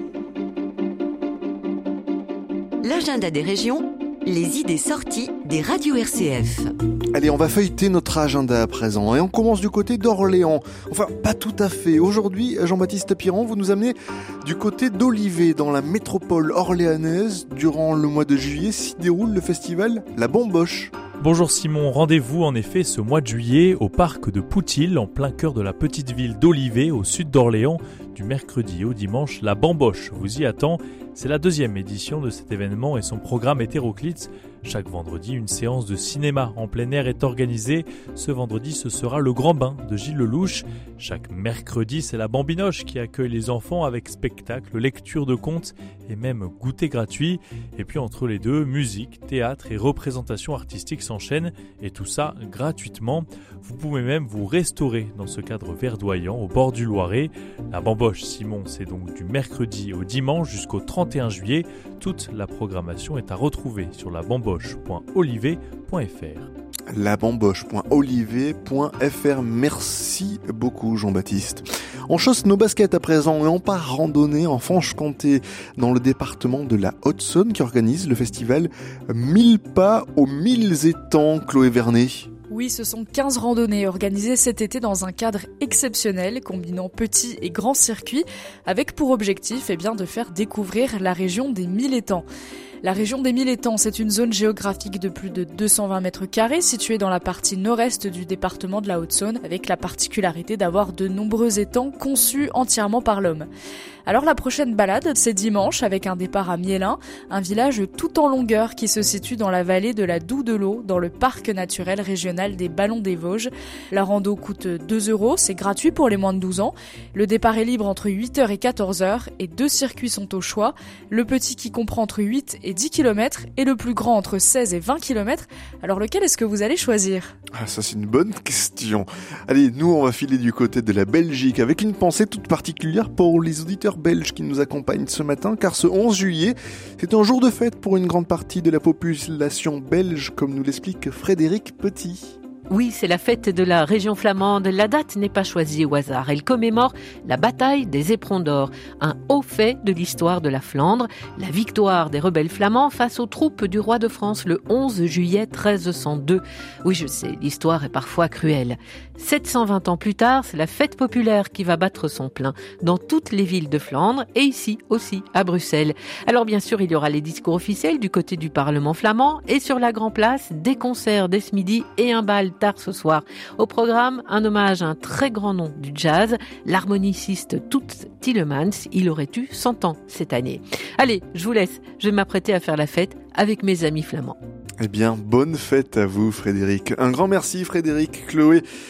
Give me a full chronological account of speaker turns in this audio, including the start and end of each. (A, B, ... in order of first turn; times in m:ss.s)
0:02.8-0:06.7 A
0:07.1-0:20.9 B
0:21.2-1:06.5 C
1:06.9-1:22.3 B
1:22.5-1:32.3 D
1:32.8-1:43.5 D
1:44.1-2:07.3 D
2:07.6-2:22.4 B
2:22.7-3:04.3 E
3:04.8-3:08.6 B